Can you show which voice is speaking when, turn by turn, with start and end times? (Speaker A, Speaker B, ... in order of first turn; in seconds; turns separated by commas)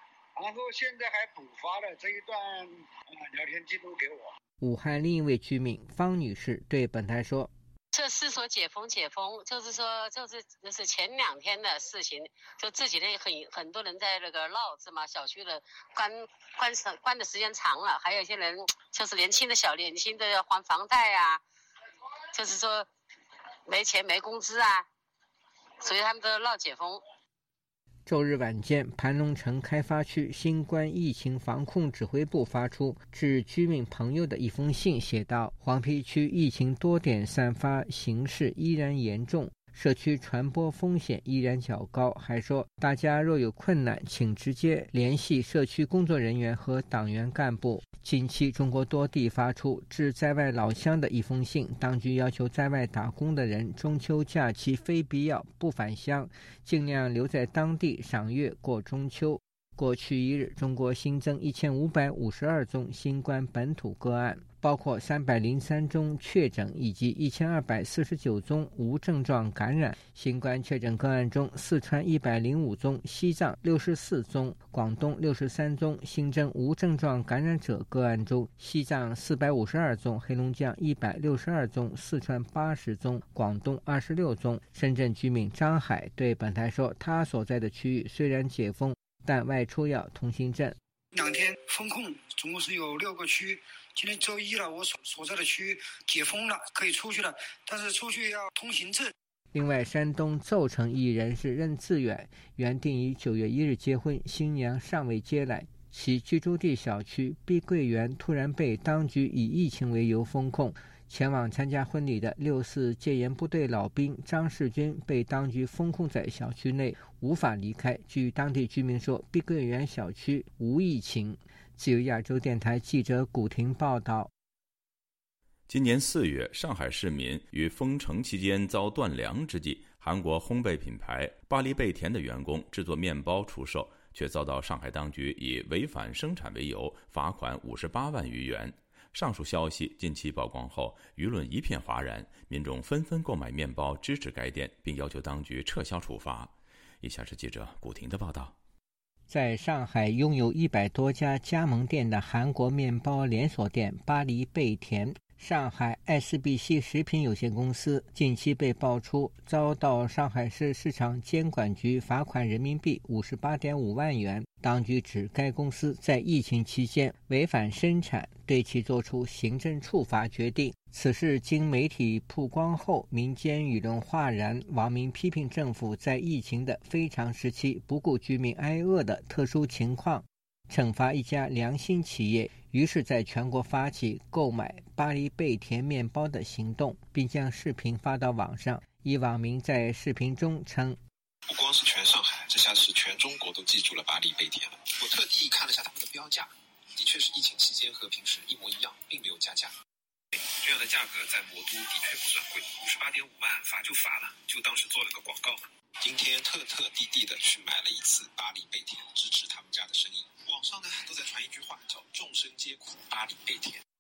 Speaker A: 0.4-4.3, Speaker B: 4.6-7.5, Speaker C: 7.9-21.4, Speaker C: 22.3-22.9, Speaker C: 23.7-24.9, Speaker C: 25.8-27.0, Speaker B: 28.1-90.8, Speaker A: 91.2-99.1, Speaker B: 99.5-124.3, Speaker D: 125.7-148.6, Speaker B: 149.3-191.0, Speaker E: 191.5-199.7, Speaker E: 200.6-213.8